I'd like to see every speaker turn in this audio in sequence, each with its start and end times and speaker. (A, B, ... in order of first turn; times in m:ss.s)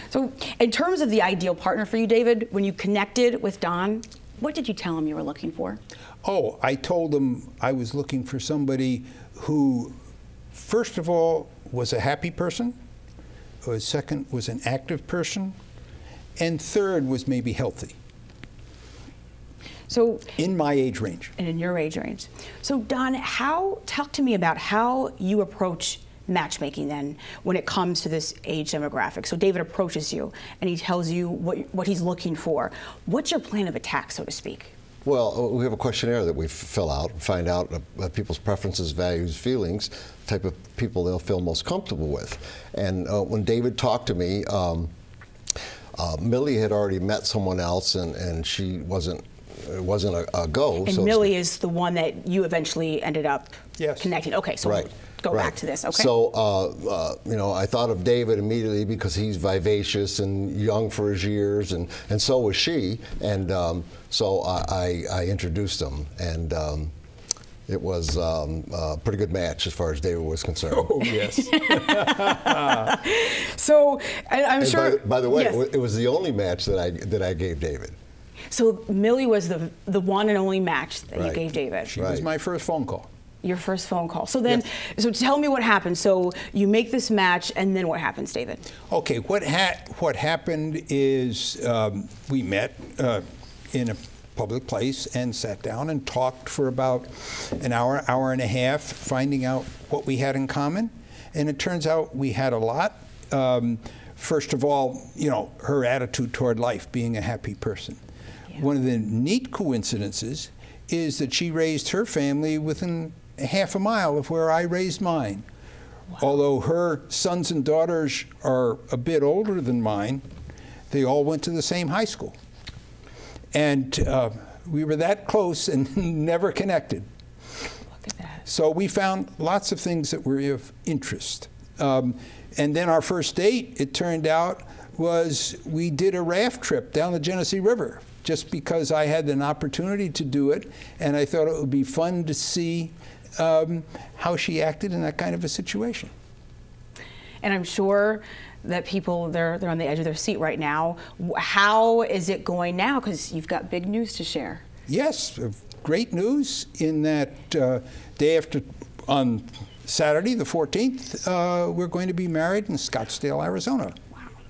0:00.1-0:05.8 A
0:06.2-0:10.0 B
0:10.5-0:12.7 B
0:13.6-0:15.6 B
0:16.4-0:18.0 B
0:19.9-0:20.3 A
0:20.4-0:21.3 B
0:21.4-0:34.7 A
0:35.0-0:44.9 C
0:46.0-0:51.3 C
0:50.8-0:56.1 A
0:53.8-0:54.1 B
0:54.6-1:06.9 C
1:07.7-1:11.1 C
1:10.9-1:12.9 B
1:11.2-1:15.6 A
1:14.6-1:18.0 C
1:18.5-1:21.9 A
1:21.1-1:21.4 C
1:21.9-1:23.1 B
1:21.9-1:22.3 C
1:23.4-1:28.6 A
1:28.9-1:48.0 B
1:48.5-1:55.4 B
1:56.2-2:00.2 B
2:00.9-2:02.4 B
2:03.5-2:07.0 B
2:08.4-2:26.1 B
2:27.4-2:34.6 A
2:34.9-2:43.9 B